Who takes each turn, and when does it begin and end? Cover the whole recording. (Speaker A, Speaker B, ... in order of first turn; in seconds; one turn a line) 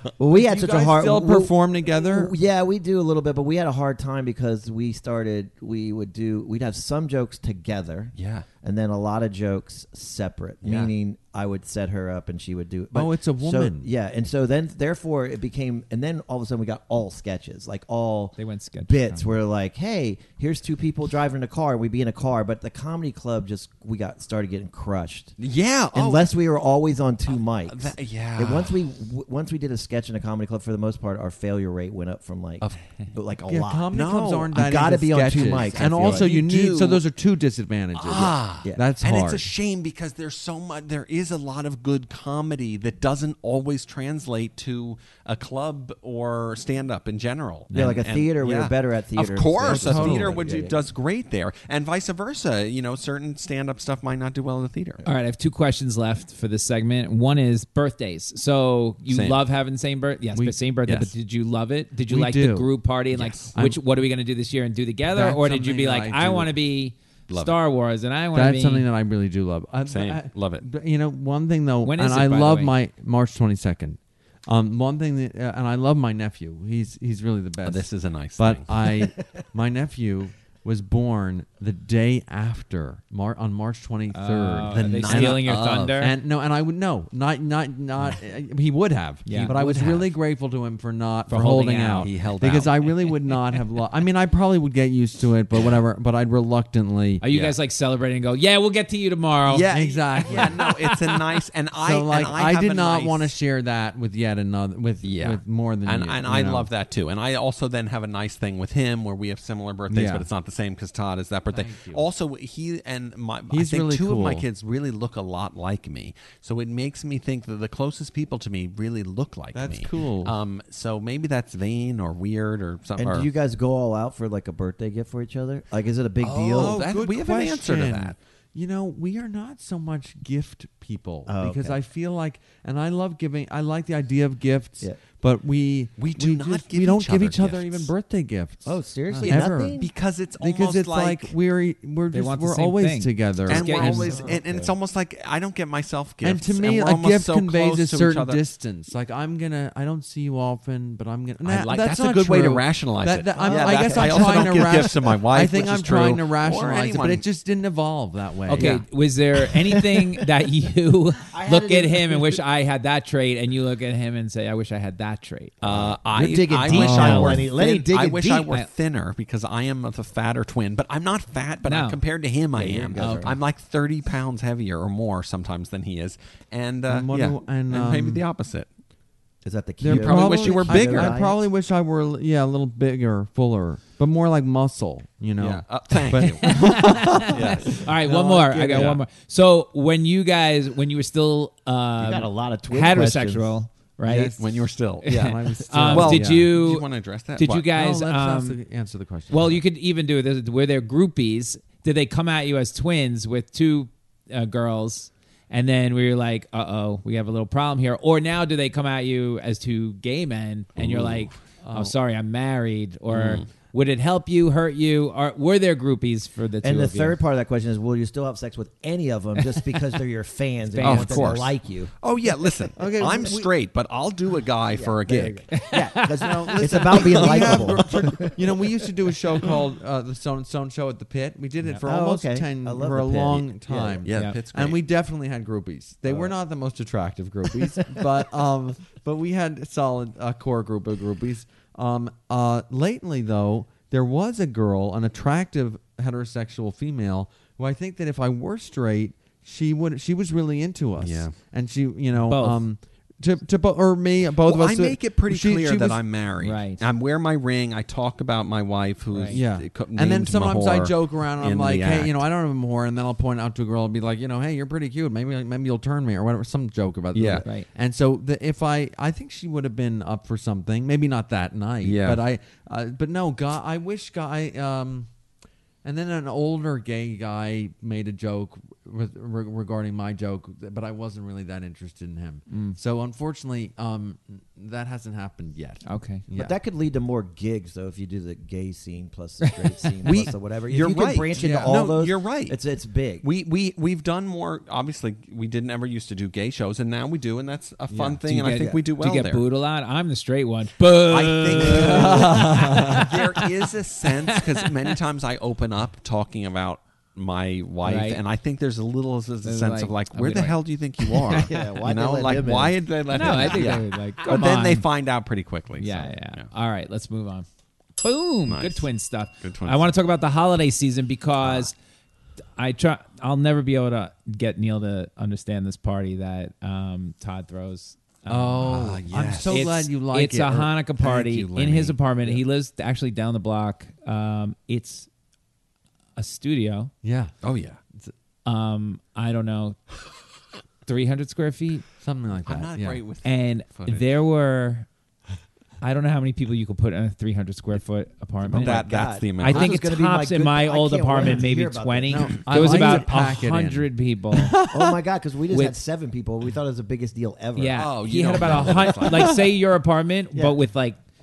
Speaker A: 0.2-25.4
Speaker B: 0.3-2.3
Speaker C: 8.2-8.5
Speaker C: 10.6-10.9
Speaker B: 12.9-13.9
Speaker D: 18.4-19.3
Speaker C: 25.4-26.3
Speaker A: 25.9-33.9
Speaker C: 27.7-28.8
Speaker B: 33.5-39.5
Speaker C: 33.9-34.6
Speaker A: 34.5-36.3
Speaker C: 35.3-37.0
Speaker C: 37.9-55.0
Speaker B: 47.7-48.0
Speaker A: 47.7-50.8
Speaker B: 49.6-50.6
Speaker D: 55.0-68.9
Speaker C: 59.1-59.4
Speaker C: 60.9-61.1
Speaker B: 62.1-62.7
Speaker C: 63.1-63.5
Speaker B: 63.5-63.8
Speaker B: 65.1-66.5
Speaker C: 67.3-67.6
Speaker B: 68.3-97.2
Speaker C: 69.9-70.7
Speaker D: 71.8-72.7
Speaker C: 77.6-78.7
Speaker D: 84.1-86.1
Speaker C: 84.7-86.0
Speaker D: 89.3-90.0
Speaker C: 89.4-90.1
Speaker D: 91.3-92.1
Speaker C: 92.0-93.1
Speaker D: 97.2-99.7
Speaker C: 97.3-97.6
Speaker C: 99.5-103.3
Speaker B: 99.7-101.2
Speaker B: 101.8-106.7
Speaker C: 105.0-123.3
Speaker B: 109.9-110.3
Speaker B: 111.5-112.1
Speaker B: 113.5-114.5
Speaker B: 119.5-120.4
Speaker A: 123.0-126.8
Speaker C: 126.2-128.2
Speaker B: 126.5-139.8
Speaker A: 131.3-131.8
Speaker C: 136.0-137.9
Speaker A: 138.7-139.9
Speaker C: 139.2-141.3
Speaker B: 140.4-144.2
Speaker D: 142.1-144.3
Speaker C: 143.5-148.4
Speaker A: 143.9-144.8
Speaker B: 146.2-158.8
Speaker C: 151.4-157.2
Speaker A: 153.4-154.7
Speaker D: 158.5-165.6
Speaker A: 161.3-162.4
Speaker C: 165.6-178.7
Speaker A: 165.6-168.5
Speaker D: 166.7-167.4
Speaker B: 166.7-167.4
Speaker D: 171.7-172.0
Speaker A: 172.6-173.4
Speaker D: 173.0-173.4
Speaker B: 176.9-178.2
Speaker A: 179.4-181.4
Speaker B: 179.8-189.0
Speaker C: 179.9-181.2
Speaker C: 185.4-187.8
Speaker D: 186.5-194.4
Speaker A: 188.5-188.9
Speaker C: 188.7-189.0
Speaker A: 192.0-193.6
Speaker B: 194.1-196.6
Speaker C: 194.4-197.7
Speaker D: 195.0-198.6
Speaker B: 197.7-199.6
Speaker D: 199.3-217.2
Speaker C: 210.8-211.4
Speaker B: 211.6-211.9
Speaker C: 213.1-213.5
Speaker A: 216.6-221.9
Speaker D: 220.7-221.5
Speaker C: 220.8-225.5
Speaker B: 222.8-223.5
Speaker A: 224.7-228.6
Speaker D: 225.5-226.6
Speaker B: 226.2-256.0
Speaker C: 226.6-228.2
Speaker A: 231.9-234.1
Speaker C: 234.1-234.8
Speaker D: 234.1-234.4
Speaker C: 251.0-251.3
Speaker D: 252.2-252.6
Speaker C: 254.4-262.2
Speaker D: 256.4-256.8
Speaker D: 259.1-259.4
Speaker B: 259.3-275.1
Speaker C: 267.1-267.4
Speaker C: 271.8-272.2
Speaker B: 275.8-286.6
Speaker D: 282.5-282.8
Speaker D: 285.9-286.2
Speaker A: 286.3-293.2
Speaker D: 289.4-289.9
Speaker C: 290.1-292.6
Speaker B: 291.4-291.8
Speaker C: 293.2-299.4
Speaker B: 297.9-298.2
Speaker D: 298.2-303.4
Speaker C: 301.1-316.5
Speaker B: 301.6-303.1
Speaker D: 307.8-308.2
Speaker D: 309.4-311.5
Speaker A: 311.4-313.8
Speaker D: 313.1-314.9
Speaker D: 315.8-317.5
Speaker D: 318.0-321.7
Speaker C: 318.5-318.9
Speaker C: 319.4-319.9
Speaker C: 321.4-321.7
Speaker D: 322.6-328.8
Speaker B: 328.3-330.7
Speaker C: 328.6-329.7
Speaker D: 329.5-335.1
Speaker C: 331.0-332.0
Speaker D: 336.2-336.9
Speaker B: 337.0-337.3
Speaker C: 337.4-337.8
Speaker D: 338.4-339.8
Speaker D: 340.9-341.9
Speaker B: 342.0-343.0
Speaker C: 342.5-344.1
Speaker D: 343.2-344.9
Speaker D: 345.8-348.8
Speaker C: 348.5-349.7
Speaker A: 348.5-352.4
Speaker D: 349.4-354.6
Speaker B: 352.1-355.0
Speaker A: 354.7-358.7
Speaker D: 355.5-355.8
Speaker D: 357.6-361.0
Speaker C: 357.8-359.4
Speaker B: 358.4-359.4